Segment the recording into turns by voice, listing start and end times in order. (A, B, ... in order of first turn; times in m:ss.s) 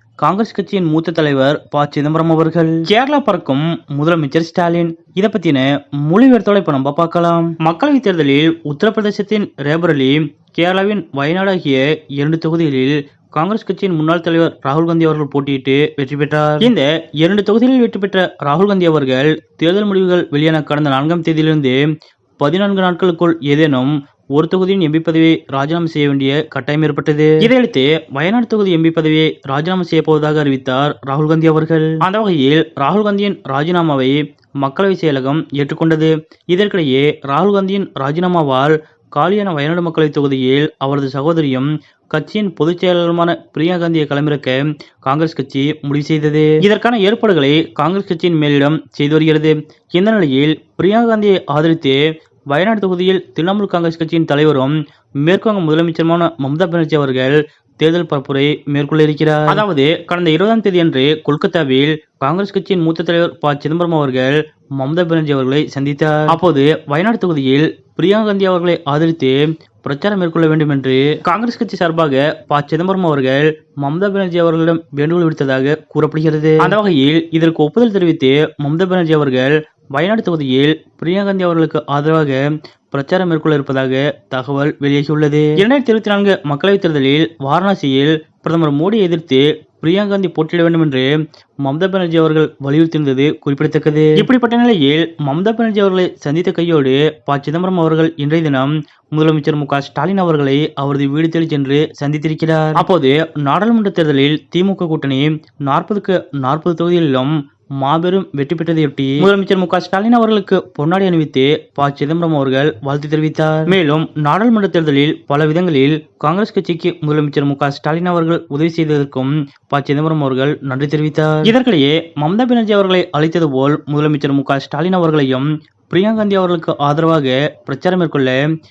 0:00.2-0:21.8 A
0:22.4-1:31.1 A
1:31.6-2:08.4 A